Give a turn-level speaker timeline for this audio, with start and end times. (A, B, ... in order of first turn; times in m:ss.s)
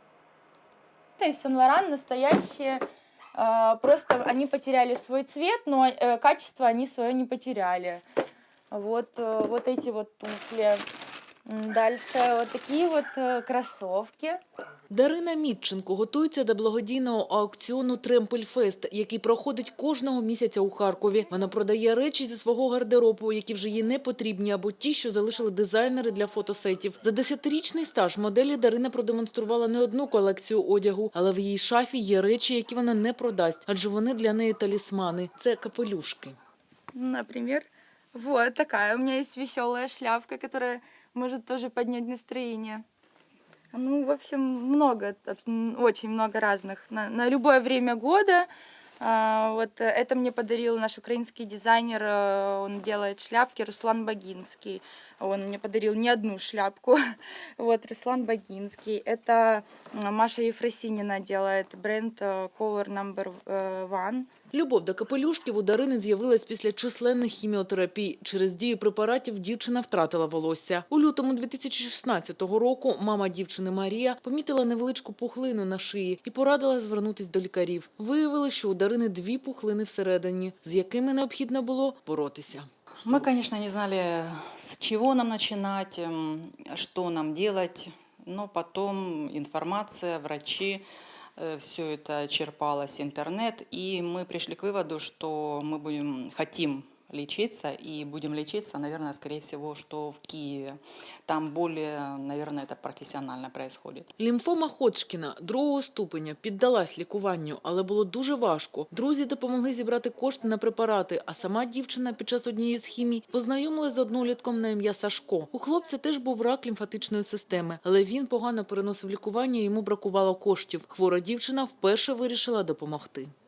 0:01.2-0:02.8 A
0:03.4-0:08.0 A
0:08.7-0:10.8 A
0:11.5-0:14.4 A
0:14.9-0:36.4 B
0:36.9-0:42.8 A
0:43.7-0:48.5 A
0:49.0-0:57.0 A
0:57.6-1:04.3 A
1:04.5-1:23.3 B
1:23.0-1:30.9 C
1:31.4-1:44.1 C
1:44.2-2:03.3 B